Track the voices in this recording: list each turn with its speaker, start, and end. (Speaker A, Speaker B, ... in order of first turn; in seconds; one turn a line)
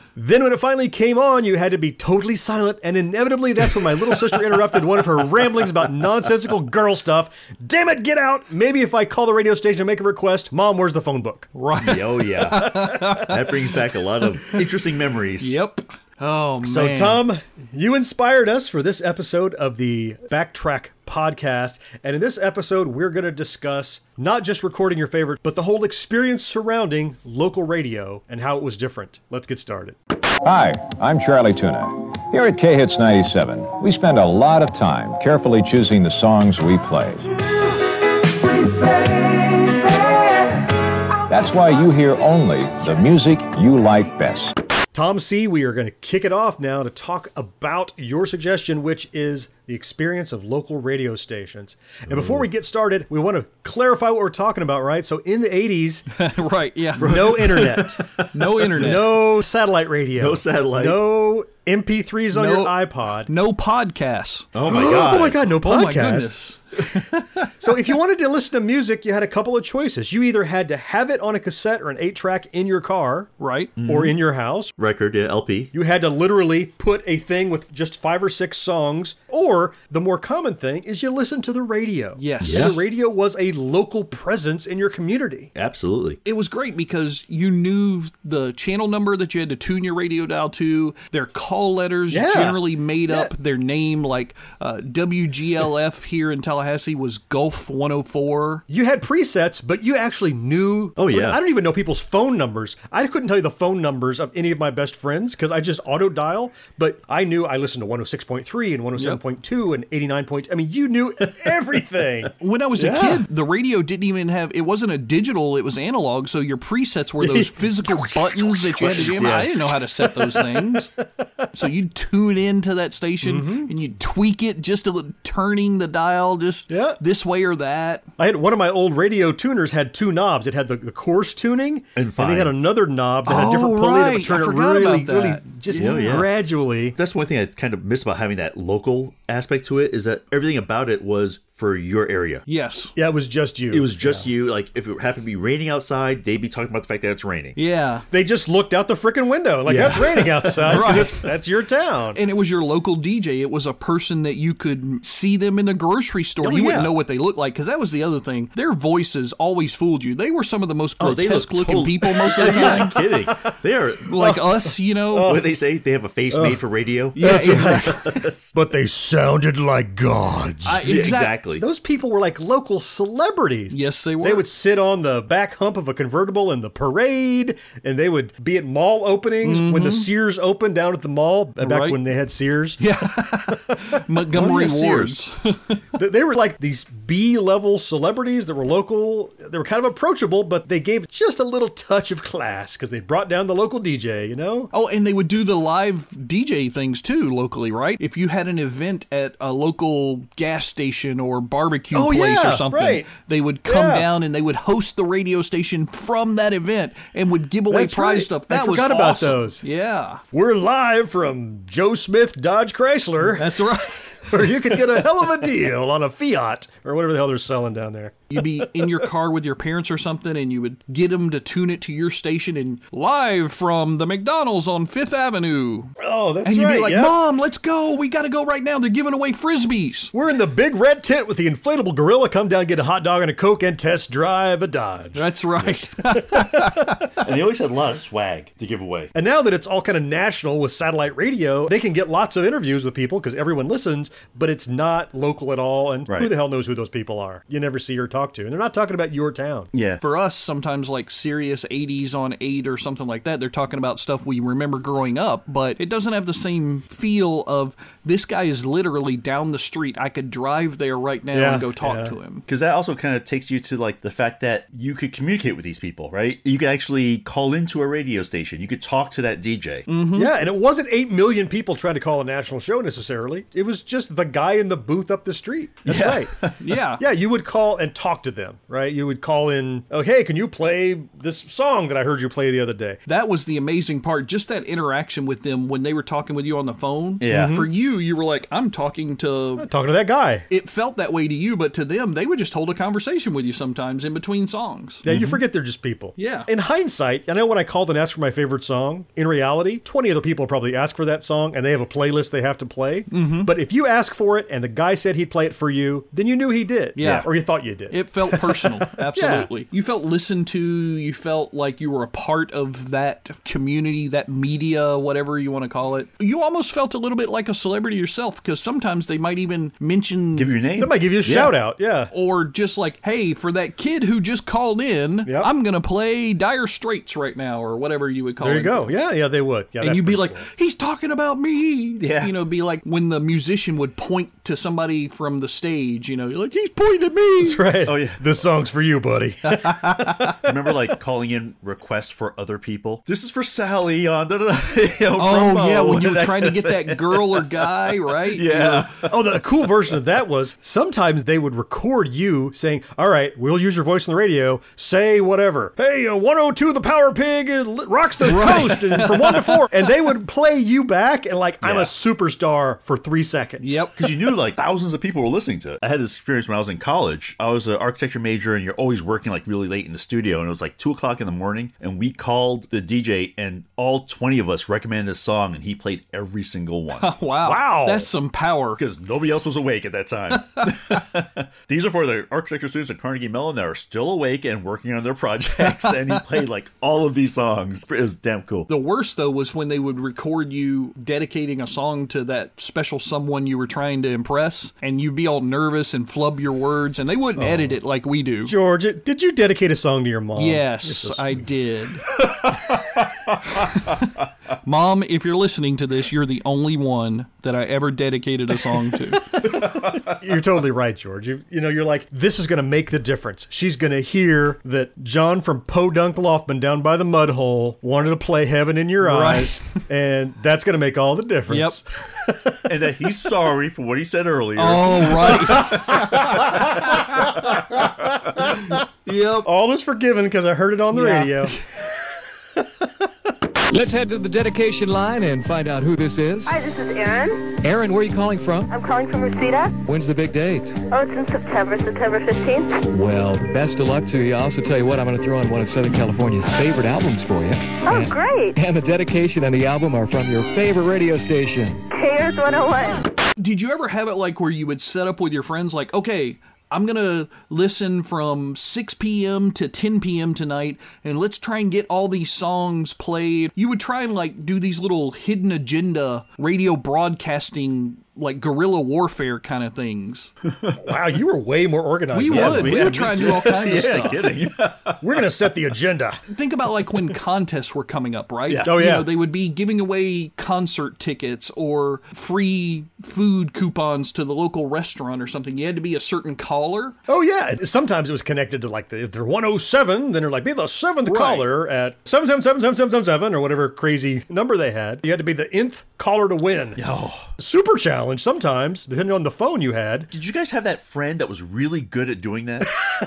Speaker A: 0.2-11.5
Speaker B: 11.6-13.5
Speaker C: 11.8-15.5
Speaker B: 15.4-17.3
Speaker A: 16.6-30.0
Speaker D: 30.4-37.4
Speaker D: 41.3-44.6
Speaker A: 44.9-56.1
Speaker C: 52.1-52.5
Speaker B: 56.2-57.8
Speaker C: 57.0-59.0
Speaker A: 57.0-63.3
Speaker B: 58.3-59.2
Speaker C: 60.2-61.1
Speaker B: 62.3-62.8
Speaker B: 63.3-64.5
Speaker C: 64.5-65.5
Speaker A: 64.6-66.4
Speaker B: 65.6-67.7
Speaker A: 67.6-74.7
Speaker B: 73.4-73.7
Speaker C: 73.8-74.2
Speaker C: 74.8-75.7
Speaker A: 75.7-85.5
Speaker B: 82.2-82.8
Speaker C: 82.4-82.8
Speaker C: 85.5-86.2
Speaker B: 86.2-98.6
Speaker A: 92.1-93.3
Speaker A: 98.7-113.2
Speaker C: 101.0-101.4
Speaker B: 112.4-120.9
Speaker A: 117.2-119.4
Speaker C: 118.8-119.6
Speaker A: 120.3-120.8
Speaker B: 121.5-128.1
Speaker A: 123.2-123.7
Speaker A: 126.7-127.0
Speaker A: 128.2-137.0
Speaker C: 132.0-132.6
Speaker B: 133.3-136.2
Speaker C: 135.8-136.3
Speaker C: 136.9-142.4
Speaker B: 142.5-142.9
Speaker A: 143.0-144.3
Speaker C: 143.7-147.6
Speaker B: 147.6-148.1
Speaker A: 148.1-152.2
Speaker C: 149.7-151.1
Speaker B: 150.7-151.2
Speaker B: 152.2-163.0
Speaker C: 156.4-156.9
Speaker C: 161.0-164.2
Speaker A: 162.3-163.5
Speaker B: 164.1-165.4
Speaker A: 164.2-164.5
Speaker A: 165.1-165.5
Speaker C: 165.2-168.6
Speaker A: 166.3-166.6
Speaker B: 167.2-168.2
Speaker A: 167.2-184.7
Speaker B: 170.7-171.3
Speaker C: 170.8-171.6
Speaker B: 173.7-174.5
Speaker B: 179.4-180.1
Speaker B: 181.6-182.0
Speaker B: 182.8-185.8
Speaker C: 184.3-185.1
Speaker A: 185.9-194.7
Speaker B: 194.7-210.2
Speaker A: 201.9-203.1
Speaker A: 203.7-204.1
Speaker A: 207.7-209.6
Speaker A: 210.3-213.6
Speaker B: 213.3-214.5
Speaker A: 214.3-219.1
Speaker B: 218.3-230.1
Speaker A: 226.0-227.2
Speaker A: 230.1-235.2
Speaker B: 235.2-237.0
Speaker A: 236.3-236.9
Speaker C: 237.2-239.1
Speaker A: 239.1-249.7
Speaker C: 246.1-246.3
Speaker C: 249.7-250.0
Speaker B: 250.0-262.4
Speaker A: 261.3-262.1
Speaker C: 262.5-269.9
Speaker B: 269.9-270.3
Speaker A: 270.1-276.4
Speaker C: 275.9-276.6
Speaker B: 276.6-277.0
Speaker A: 277.0-283.0
Speaker B: 283.1-289.7
Speaker C: 287.2-287.6
Speaker A: 287.3-287.7
Speaker A: 289.6-290.5
Speaker B: 290.5-295.1
Speaker A: 295.0-309.5
Speaker C: 295.1-295.4
Speaker B: 296.2-296.5
Speaker B: 303.1-303.5
Speaker B: 307.0-307.3
Speaker C: 307.0-307.3
Speaker B: 307.9-320.5
Speaker C: 320.4-321.6
Speaker A: 320.8-322.1
Speaker B: 322.1-328.9
Speaker A: 328.4-330.5
Speaker B: 329.8-337.6
Speaker C: 332.0-332.3
Speaker A: 337.4-340.6
Speaker C: 337.9-338.3
Speaker B: 339.5-340.4
Speaker C: 340.4-349.4
Speaker B: 345.2-349.0
Speaker A: 349.1-363.9
Speaker B: 358.2-359.9
Speaker C: 361.6-361.9
Speaker B: 363.6-364.0
Speaker C: 364.0-377.1
Speaker B: 377.0-378.8
Speaker A: 377.4-378.1
Speaker C: 378.8-388.7
Speaker B: 380.5-381.0
Speaker B: 385.7-386.2
Speaker B: 388.7-398.5
Speaker A: 397.4-397.8
Speaker A: 398.5-401.5
Speaker B: 400.4-402.1
Speaker C: 402.2-403.6
Speaker B: 403.6-404.1
Speaker B: 404.6-409.2
Speaker A: 409.1-422.6
Speaker C: 409.6-410.2
Speaker B: 419.0-419.6
Speaker B: 421.5-421.8
Speaker C: 422.7-427.8
Speaker B: 424.6-426.3
Speaker A: 425.6-428.7
Speaker B: 429.1-429.5
Speaker A: 429.4-431.6
Speaker B: 430.9-431.6
Speaker E: 433.7-436.6
Speaker F: 436.5-437.5
Speaker E: 437.6-438.7
Speaker F: 438.7-439.8
Speaker E: 439.8-440.8
Speaker F: 440.9-442.8
Speaker E: 442.9-451.9
Speaker F: 447.9-448.6
Speaker F: 451.9-453.0
Speaker B: 453.4-470.3
Speaker C: 470.5-470.9
Speaker A: 470.8-473.5
Speaker B: 472.1-474.2
Speaker C: 472.3-475.5
Speaker A: 475.0-476.2
Speaker B: 476.3-487.0
Speaker C: 478.5-478.8
Speaker A: 478.6-479.1
Speaker A: 487.1-496.8
Speaker B: 491.1-491.5
Speaker C: 496.8-497.3
Speaker A: 497.4-500.1
Speaker C: 500.1-502.7